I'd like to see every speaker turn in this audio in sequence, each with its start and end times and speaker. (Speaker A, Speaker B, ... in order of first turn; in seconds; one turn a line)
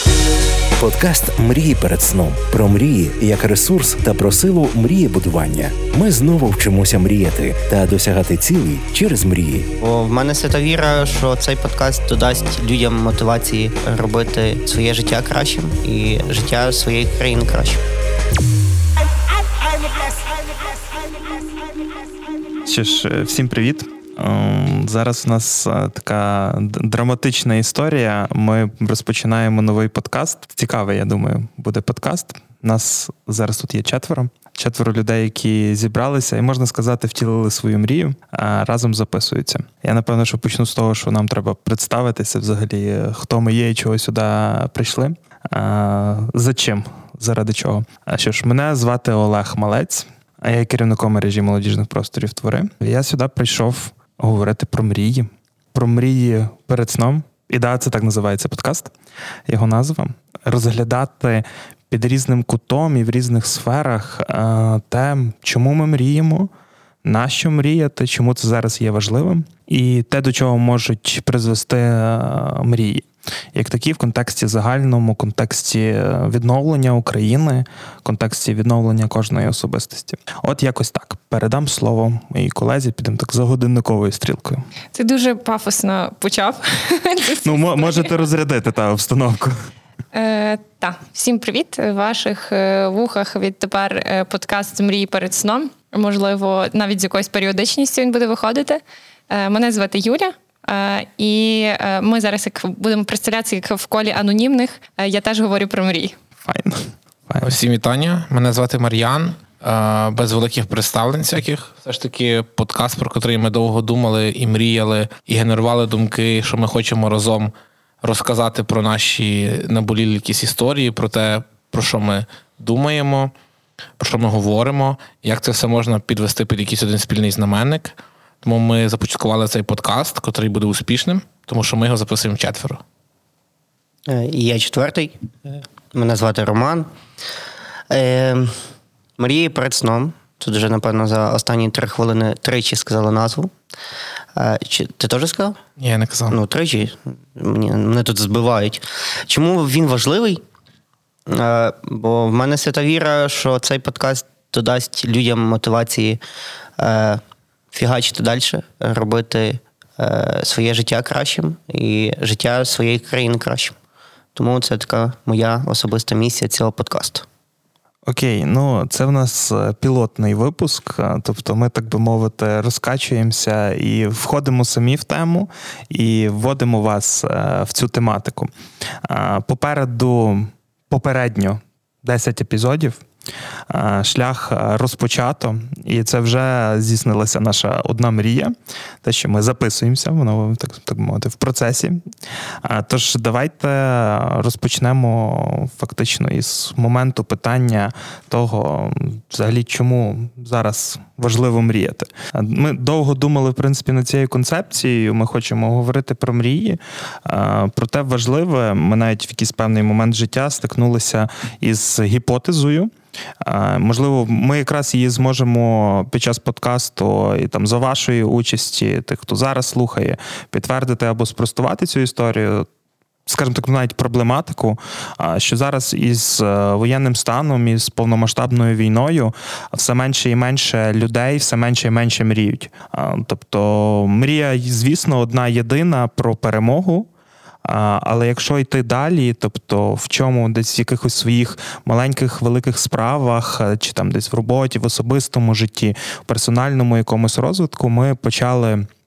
Speaker A: 0.8-9.7
Speaker B: 9.8-17.8
Speaker C: 22.6-58.9
Speaker C: 59.5-66.5
Speaker C: 67.0-84.6
Speaker D: 84.9-88.1
Speaker C: 87.4-89.6
Speaker D: 90.1-106.1
Speaker C: 106.5-107.5
Speaker E: 107.4-117.5
Speaker E: 118.0-123.3
Speaker E: 124.0-132.8
Speaker B: 134.1-136.9
Speaker B: 137.9-138.6
Speaker B: 139.2-143.5
Speaker B: 144.3-145.6
Speaker E: 145.8-146.4
Speaker B: 146.3-150.4
Speaker B: 151.3-156.2
Speaker B: 156.8-157.2
Speaker B: 157.7-163.8
Speaker B: 164.3-167.2
Speaker C: 168.1-178.5
Speaker C: 179.0-183.0
Speaker C: 183.7-192.0
Speaker C: 192.6-222.7
Speaker C: 223.3-237.1
Speaker C: 237.6-248.9